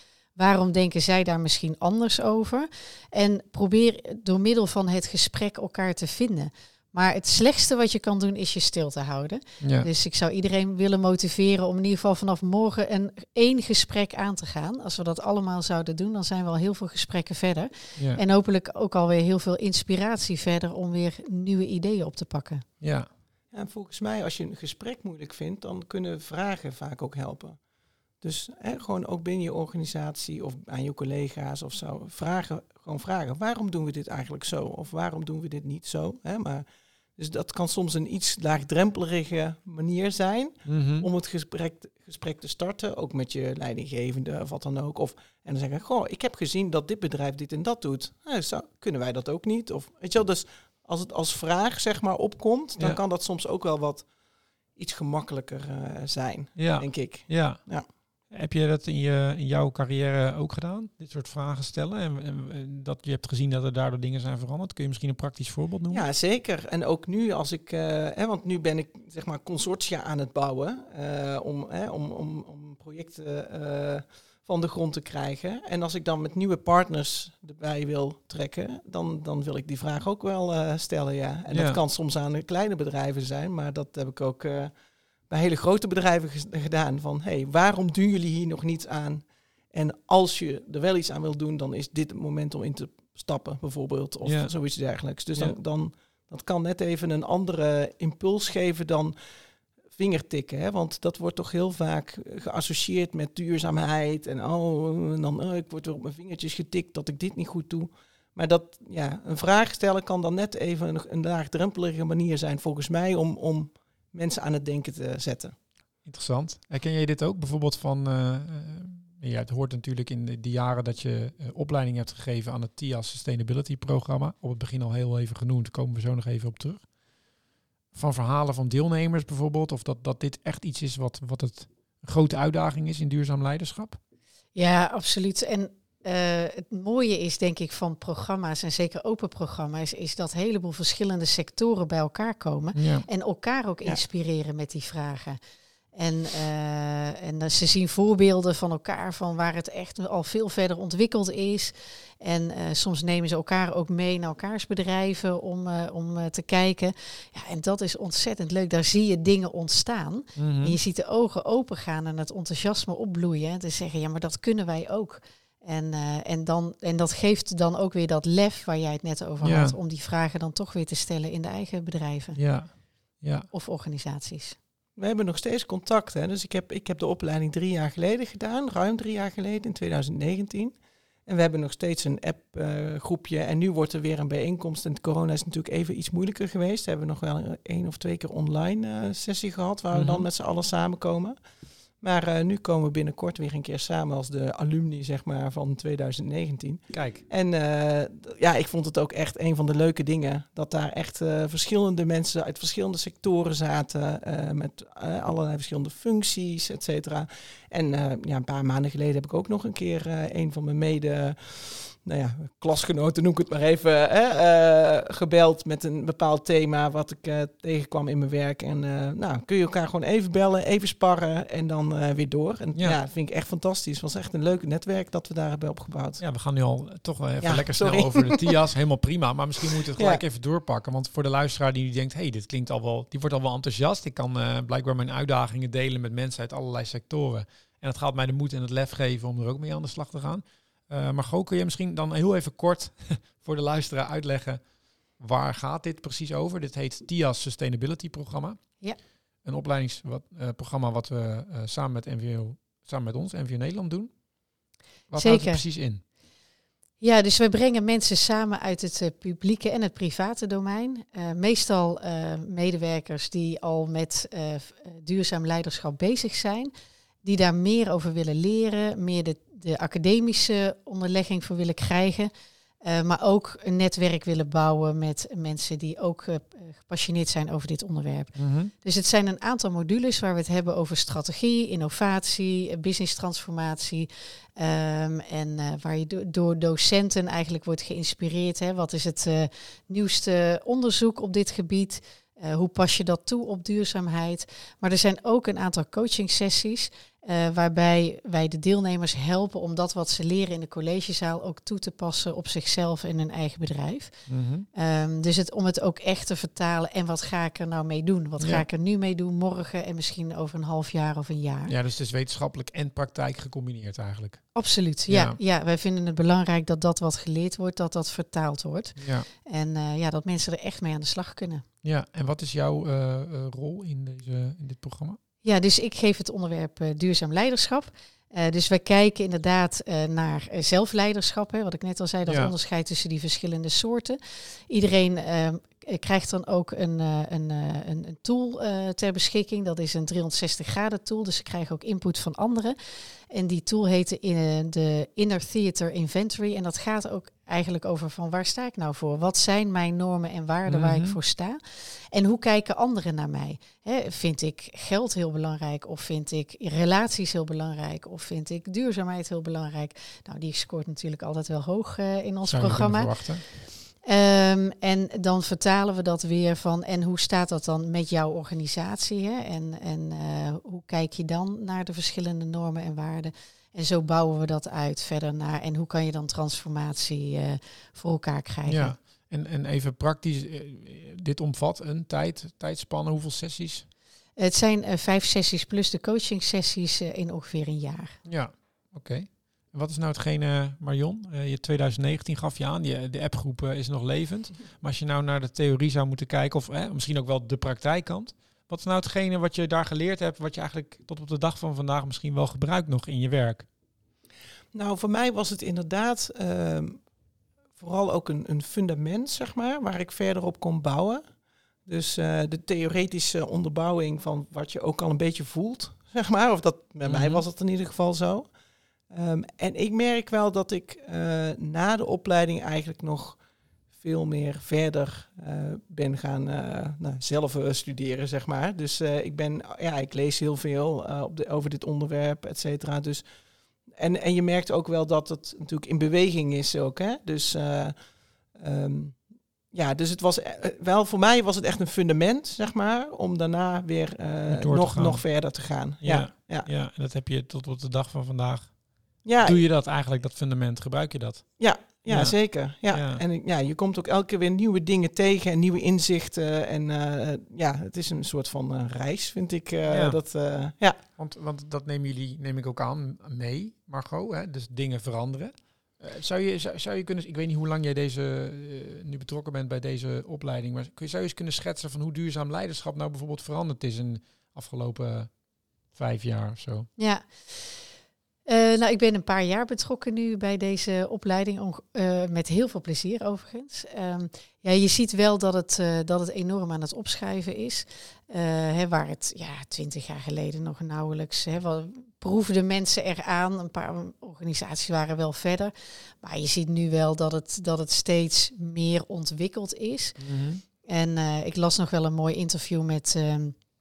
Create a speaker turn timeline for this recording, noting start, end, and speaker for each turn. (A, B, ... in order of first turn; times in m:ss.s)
0:00.4-0:22.6 A
0:09.6-0:09.9 B
0:22.8-0:23.1 B
0:23.5-0:27.6 C
0:28.2-0:36.6 C
0:37.2-0:54.1 C
0:40.6-0:41.1 B
0:54.8-0:57.9 C
0:56.6-0:57.6 B
0:58.3-1:06.0 B
1:05.9-1:24.7 C
1:21.5-1:21.8 B
1:25.3-1:39.1 C
1:34.2-1:34.5 B
1:39.9-1:55.6 C
1:56.0-2:06.9 B
2:07.9-2:14.0 B
2:14.6-2:25.4 A
2:22.7-2:23.1 B
2:25.9-2:52.4 A
2:40.4-2:40.8 B
2:49.4-2:49.8 B
2:52.4-2:53.5 B
2:53.5-2:54.6 A
2:55.0-3:11.4 C
3:09.9-3:10.2 B
3:12.0-3:46.2 C
3:16.9-3:17.2 B
3:46.2-4:08.8 B
3:47.4-3:48.5 C
3:50.0-3:50.2 C
4:09.4-4:14.2 B
4:15.1-4:16.0 B
4:15.2-4:15.6 A
4:17.0-4:26.7 A
4:27.2-4:32.3 A
4:32.8-5:04.2 A
4:38.4-4:38.7 B
5:04.3-5:04.6 B
5:04.7-5:11.7 A
5:08.4-5:08.6 B
5:11.7-5:14.5 B
5:14.6-5:21.6 A
5:15.1-5:15.4 B
5:19.0-5:19.3 B
5:21.8-5:25.2 B
5:25.4-5:34.2 A
5:32.3-5:32.5 B
5:34.7-6:19.0 A
5:50.7-5:51.2 B
6:02.4-6:03.4 B
6:18.7-6:23.9 B
6:24.4-6:28.2 A
6:28.2-6:43.7 B
6:44.7-6:47.0 C
6:47.8-6:51.2 C
6:51.9-6:58.5 C
6:57.0-6:57.4 B
6:59.1-7:03.4 C
7:03.9-7:13.2 C
7:14.0-7:17.9 C
7:18.5-7:26.7 C
7:24.5-7:25.2 B
7:26.0-7:33.2 B
7:29.2-7:29.6 C
7:31.6-7:41.0 C
7:39.9-7:40.2 B
7:41.2-7:56.9 B
7:57.0-7:57.8 A
7:58.5-8:20.2 A
8:20.2-8:20.6 B
8:20.8-8:23.6 A